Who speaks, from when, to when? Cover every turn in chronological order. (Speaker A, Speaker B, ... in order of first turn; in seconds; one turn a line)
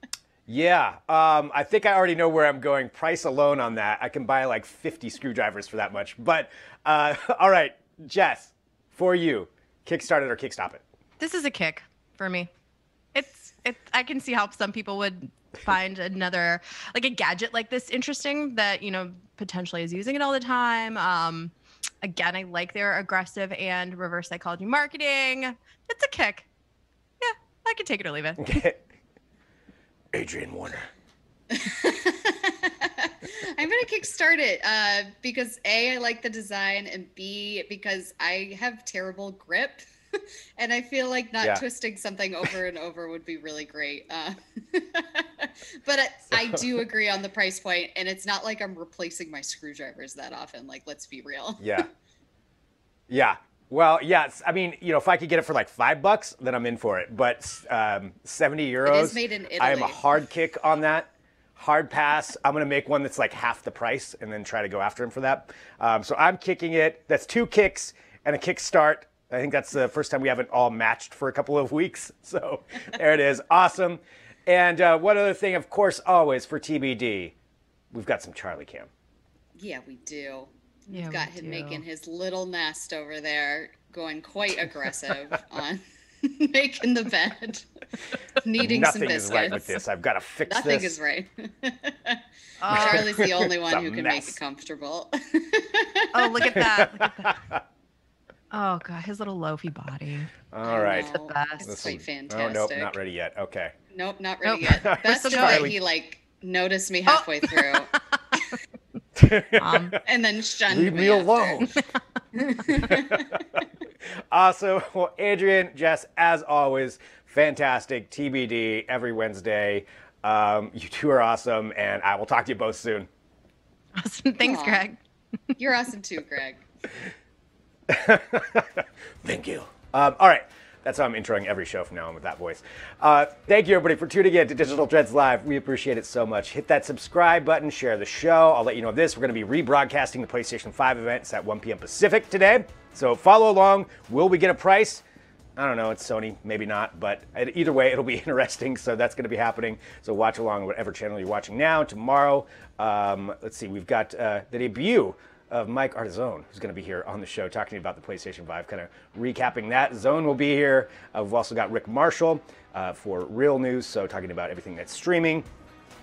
Speaker A: 0.5-10.8
Speaker B: 11.2-12.5
Speaker B: 13.1-26.5
Speaker B: 27.2-28.6
Speaker A: 28.4-28.8
Speaker A: 30.1-30.9
Speaker C: 31.5-39.8
Speaker C: 40.6-51.9
Speaker A: 46.3-46.8
Speaker A: 51.6-51.9
Speaker A: 53.1-77.3
Speaker C: 58.8-60.2
Speaker A: 77.9-78.9
Speaker C: 79.5-87.7
Speaker B: 80.9-81.8
Speaker C: 88.4-89.8
Speaker A: 88.6-90.9
Speaker C: 90.4-96.5
Speaker B: 92.6-93.2
Speaker A: 92.7-94.4
Speaker B: 96.1-97.4
Speaker A: 96.5-97.6
Speaker B: 98.5-100.3
Speaker A: 100.5-103.7
Speaker C: 100.6-102.9
Speaker B: 101.1-101.7
Speaker C: 103.9-107.9
Speaker B: 104.4-105.8
Speaker A: 104.6-105.7
Speaker B: 107.1-108.0
Speaker A: 109.2-110.0
Speaker B: 109.6-110.0
Speaker C: 110.0-111.7
Speaker A: 110.7-111.8
Speaker C: 112.3-113.4
Speaker A: 112.8-113.6
Speaker A: 114.3-123.1
Speaker B: 124.0-125.0
Speaker C: 124.4-124.8
Speaker C: 125.6-126.6
Speaker A: 127.9-145.0
Speaker A: 145.6-165.5